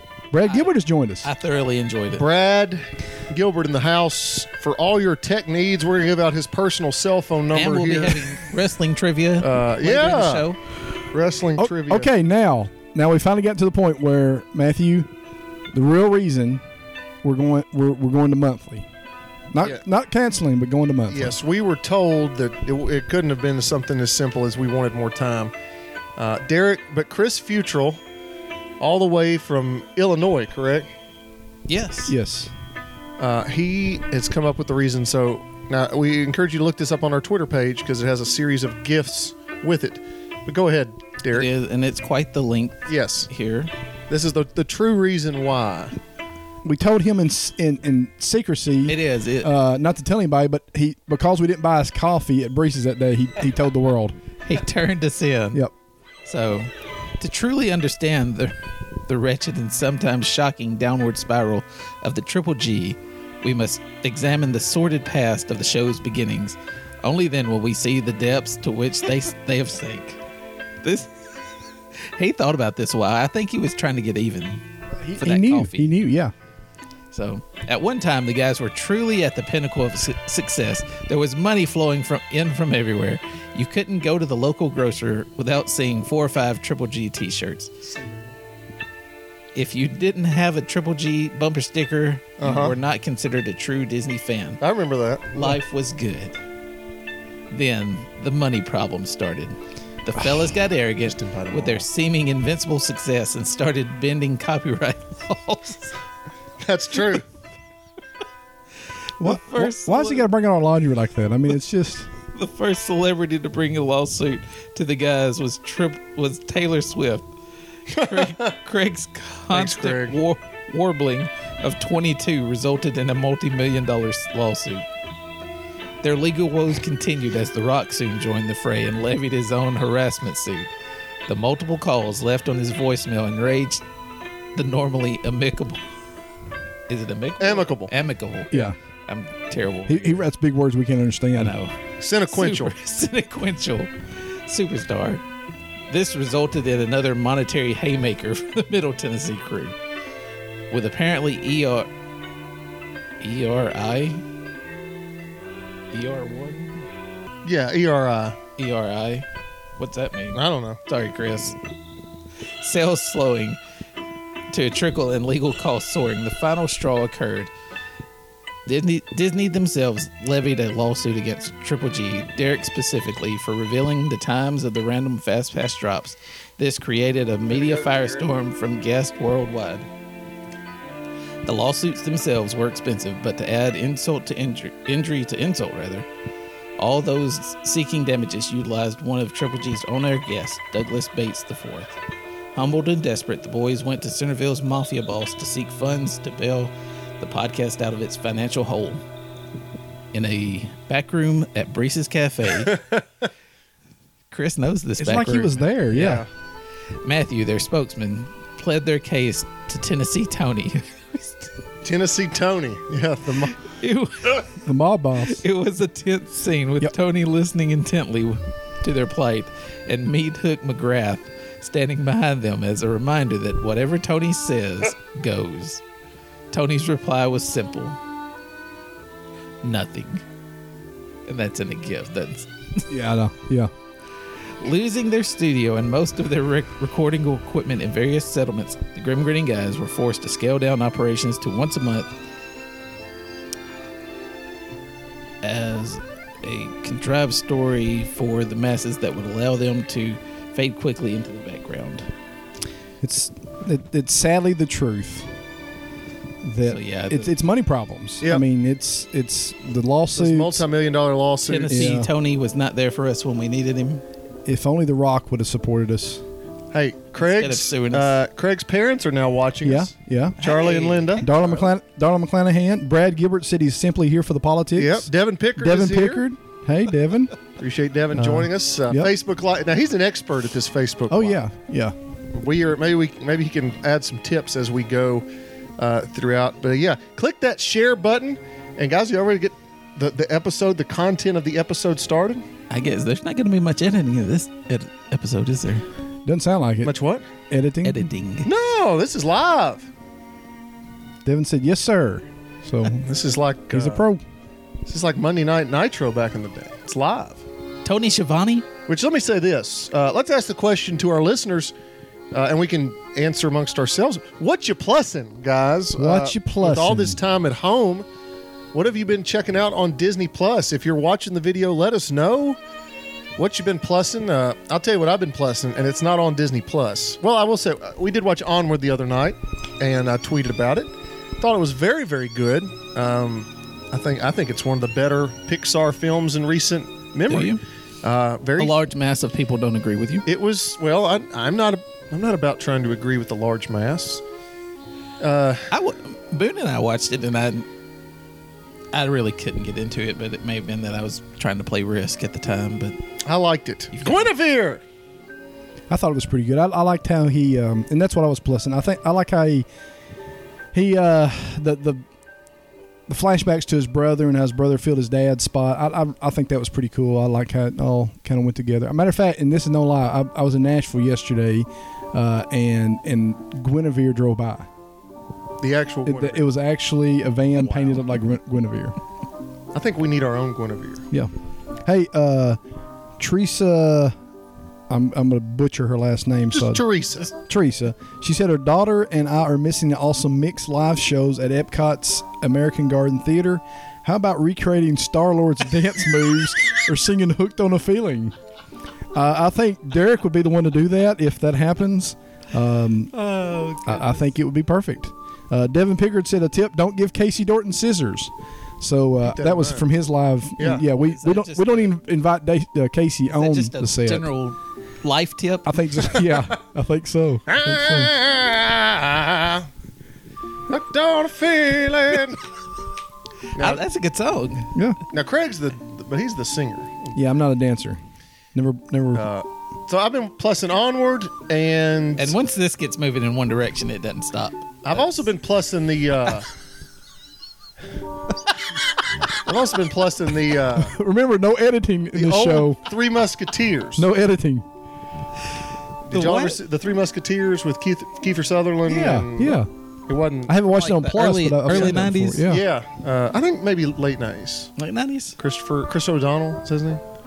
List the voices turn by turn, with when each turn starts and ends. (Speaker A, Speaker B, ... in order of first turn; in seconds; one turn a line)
Speaker A: 0.3-1.3
Speaker B: 0.4-2.3
Speaker C: 2.2-8.4
Speaker B: 7.5-10.6
Speaker C: 9.4-10.5
Speaker C: 11.1-12.1
Speaker A: 11.6-15.1
Speaker A: 15.7-16.6
Speaker A: 17.2-18.9
Speaker A: 19.5-21.4
Speaker C: 21.1-25.5
Speaker C: 26.2-28.0
Speaker C: 28.8-30.9
Speaker B: 31.7-32.1
Speaker A: 32.1-32.5
Speaker C: 33.2-41.5
Speaker B: 41.3-43.7
Speaker C: 42.9-43.3
Speaker C: 44.1-46.0
Speaker A: 46.6-54.1
Speaker B: 48.9-49.5
Speaker B: 54.5-55.6
Speaker B: 56.3-58.5
Speaker B: 59.1-70.2
Speaker B: 70.8-71.2
Speaker B: 72.0-74.6
Speaker A: 75.0-76.3
Speaker B: 75.2-75.9
Speaker B: 77.1-87.7
Speaker C: 87.9-88.2
Speaker B: 89.5-94.6
Speaker C: 92.4-92.8
Speaker C: 94.6-95.6
Speaker B: 95.3-96.4
Speaker B: 97.5-106.0
Speaker C: 101.0-101.8
Speaker C: 106.6-107.2
Speaker B: 109.2-110.3
Speaker A: 109.2-112.1
Speaker B: 112.3-117.3
Speaker C: 117.9-118.5
Speaker B: 117.9-124.8
Speaker C: 119.5-120.2
Speaker B: 126.0-130.7
Speaker B: 131.3-133.8
Speaker B: 134.6-135.8
Speaker B: 136.9-140.3
Speaker C: 137.4-137.9
Speaker A: 139.9-141.5
Speaker B: 141.4-141.8
Speaker C: 142.0-142.7
Speaker B: 142.3-143.9
Speaker B: 144.5-145.2
Speaker B: 145.9-149.8
Speaker B: 150.7-151.9
Speaker B: 153.2-154.2
Speaker B: 155.9-156.9
Speaker C: 157.4-158.4
Speaker B: 158.6-159.3
Speaker B: 159.8-161.6
Speaker C: 160.3-160.8
Speaker B: 162.6-163.6
Speaker B: 164.5-167.5
Speaker B: 168.7-179.9
Speaker C: 177.5-178.3
Speaker B: 181.4-186.1
Speaker B: 186.8-191.9
Speaker B: 192.5-199.0
Speaker B: 200.1-202.8
Speaker C: 202.7-203.0
Speaker B: 204.3-206.2
Speaker A: 205.0-206.2
Speaker C: 205.9-206.3
Speaker B: 207.0-211.5
Speaker C: 211.8-213.6
Speaker B: 213.6-214.5
Speaker A: 214.6-215.4
Speaker B: 215.2-225.8
Speaker B: 226.5-228.0
Speaker B: 229.6-230.2
Speaker B: 231.3-232.9
Speaker A: 232.9-233.7
Speaker B: 234.6-242.1
Speaker B: 245.4-252.1
Speaker A: 253.0-255.3
Speaker A: 256.4-260.6
Speaker B: 256.6-257.3
Speaker C: 260.1-262.0
Speaker B: 261.4-264.0
Speaker A: 261.7-262.1
Speaker A: 264.4-266.2
Speaker C: 266.7-271.7
Speaker B: 267.2-268.2
Speaker A: 269.6-270.4
Speaker B: 270.4-271.2
Speaker A: 271.2-277.3
Speaker C: 274.8-276.2
Speaker C: 277.6-281.4
Speaker A: 278.1-279.1
Speaker A: 281.1-281.9
Speaker C: 282.3-285.3
Speaker C: 285.8-292.4
Speaker B: 292.7-295.8
Speaker A: 296.3-296.9
Speaker C: 296.8-297.3
Speaker A: 297.5-298.1
Speaker B: 297.8-298.5
Speaker C: 298.4-299.9
Speaker A: 301.2-303.1
Speaker C: 303.0-304.0
Speaker A: 303.7-304.2
Speaker C: 304.9-307.4
Speaker B: 307.8-308.7
Speaker C: 308.9-311.7
Speaker C: 312.3-318.1
Speaker A: 316.0-317.2
Speaker C: 318.7-322.6
Speaker C: 323.4-338.8
Speaker B: 337.3-337.6
Speaker B: 338.6-340.3
Speaker C: 340.3-344.2
Speaker C: 345.2-345.7
Speaker B: 345.7-347.7
Speaker B: 348.9-353.0
Speaker C: 353.2-354.8
Speaker B: 353.9-354.2
Speaker A: 355.9-359.7
Speaker A: 360.7-362.0
Speaker A: 363.1-374.7
Speaker C: 375.6-376.4
Speaker A: 376.1-379.0
Speaker C: 379.7-381.1
Speaker A: 381.8-382.6
Speaker A: 383.2-384.1
Speaker A: 384.9-386.8
Speaker C: 386.5-387.3
Speaker A: 387.4-398.3
Speaker A: 399.1-403.1
Speaker B: 403.2-403.9
Speaker A: 403.8-414.3
Speaker C: 409.2-409.9
Speaker C: 410.6-410.9
Speaker B: 410.9-411.9
Speaker B: 413.3-415.8
Speaker A: 415.6-418.1
Speaker C: 417.5-419.7
Speaker C: 420.7-422.4
Speaker B: 423.6-424.7
Speaker C: 423.6-423.8
Speaker C: 425.1-427.2
Speaker A: 427.1-428.0
Speaker A: 428.5-429.2
Speaker C: 429.1-432.4
Speaker B: 432.2-435.1
Speaker C: 434.9-436.5
Speaker C: 439.4-440.9
Speaker A: 440.8-442.8
Speaker C: 442.1-444.1
Speaker A: 444.0-444.7
Speaker C: 446.1-450.5
Speaker B: 446.1-446.6
Speaker A: 448.9-449.7
Speaker A: 450.5-452.6
Speaker B: 450.7-452.4
Speaker C: 451.7-454.7
Speaker B: 454.8-455.4
Speaker C: 455.4-457.0